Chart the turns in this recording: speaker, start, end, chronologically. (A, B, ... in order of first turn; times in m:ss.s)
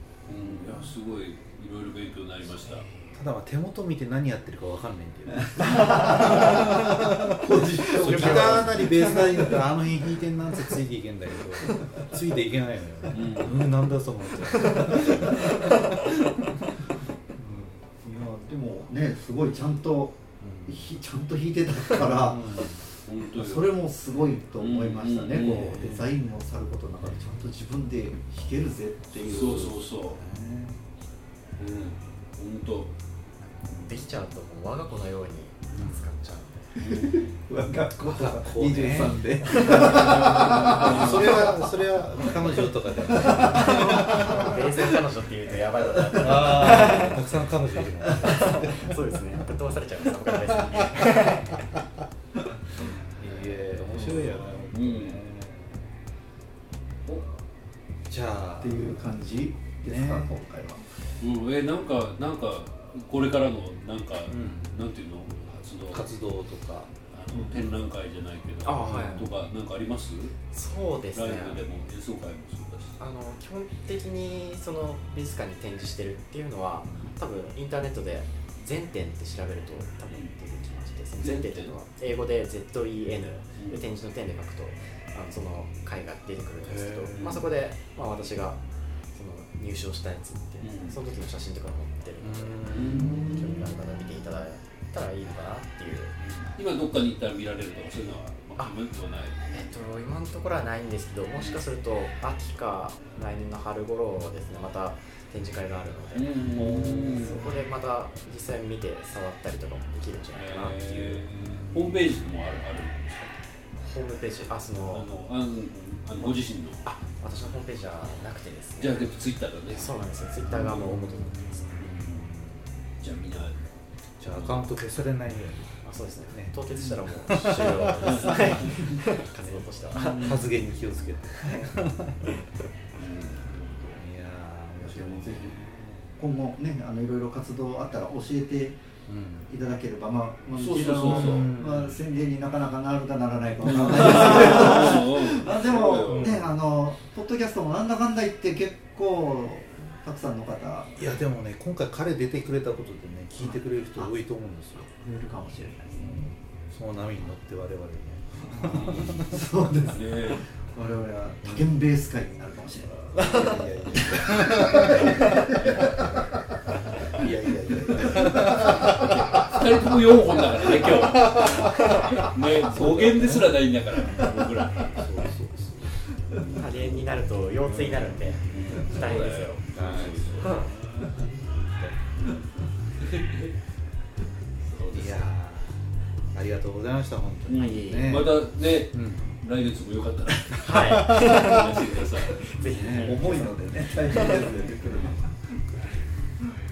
0:00.3-0:02.9 A
0:00.4-0:00.7 B
0:03.1-0:16.4 B
0:05.6-0:09.6 C
0:08.0-0:08.6 D
0:13.1-0:13.8 A
0:14.5-0:15.0 D
0:14.9-0:15.2 C
0:17.4-0:17.7 B
0:17.9-0:22.6 C
0:20.4-0:20.8 B
0:22.1-0:22.8 B
0:23.0-0:23.7 A
0:23.3-0:29.9 C
0:24.6-0:26.0 A
0:25.5-0:26.0 B
0:29.2-0:30.2 A
0:30.2-0:30.8 B
0:31.6-0:32.9 A
0:33.4-0:36.7 D
0:35.7-0:36.0 B
0:36.8-0:41.7 C
0:36.8-0:37.3 A
0:38.1-0:44.7 B
0:39.4-0:41.1 D
0:40.3-0:41.4 A
0:42.4-0:44.8 C
0:43.2-0:47.2 D
0:45.8-0:47.1 C
0:46.2-0:49.0 B
0:48.1-0:48.6 C
0:48.1-0:51.7 D
0:52.8-0:55.9 B
0:53.9-0:55.2 A
0:58.1-0:59.0 B
0:58.6-1:00.9 C
0:59.9-1:00.3 B
1:01.2-1:06.1 A
1:04.3-1:04.7 B
1:05.9-1:06.9 B
1:07.1-1:10.4 A
1:07.3-1:07.6 C
1:08.6-1:09.3 D
1:10.5-1:11.6 D
1:11.1-1:13.0 A
1:13.0-1:28.6 D
1:16.8-1:17.1 B
1:21.2-1:21.7 A
1:23.6-1:23.8 A
1:27.0-1:27.5 A
1:29.1-1:36.2 D
1:30.6-1:31.0 A
1:32.2-1:33.9 B
1:32.7-1:33.3 A
1:36.2-1:39.6 A
1:39.5-1:51.2 D
1:46.2-1:47.5 A
1:46.6-1:47.3 B
1:50.3-1:53.4 A
1:51.4-1:51.7 B
1:53.8-1:55.1 D
1:54.7-1:56.8 A
1:56.8-1:59.0 D
1:58.8-1:59.9 A
1:59.7-2:01.9 D
2:00.5-2:01.0 A
2:00.6-2:02.7 B
2:03.0-2:03.8 A
2:04.2-2:06.6 B
2:04.3-2:04.6 A
2:05.8-2:10.5 D
2:07.3-2:12.4 B
2:08.0-2:08.7 A
2:10.0-2:10.4 A
2:11.4-2:11.7 D
2:13.0-2:13.8 A
2:13.7-2:16.2 B
2:14.8-2:15.6 C
2:16.2-2:18.8 C
2:19.1-2:19.5 B
2:19.5-2:31.0 C
2:20.6-2:21.5 A
2:21.0-2:22.0 B
2:23.6-2:26.5 A
2:23.7-2:24.8 B
2:26.0-2:26.5 B
2:31.0-2:34.9 B
2:33.4-2:34.1 C
2:34.9-2:36.3 C
2:36.0-2:39.4 B
2:38.4-2:45.9 C
2:38.6-2:39.3 A
2:39.9-2:40.4 A
2:41.4-2:41.7 B
2:43.3-2:45.2 B
2:47.1-2:49.6 B
2:47.8-2:48.6 C
2:48.6-2:55.1 A
2:50.8-2:56.1 B
2:51.8-2:52.3 D
2:56.3-2:56.9 A
2:56.5-3:00.7 D
2:57.6-2:59.2 B
2:58.5-3:01.2 A
2:59.7-3:02.0 B
3:02.2-3:02.4 A
3:03.0-3:03.6 A
3:04.6-3:05.2 A
3:04.9-3:08.4 B
3:07.5-3:12.6 A
3:07.5-3:08.2 D
3:08.9-3:09.2 B
3:10.6-3:14.5 D
3:10.7-3:11.6 B
3:12.6-3:13.3 B
3:12.9-3:15.8 C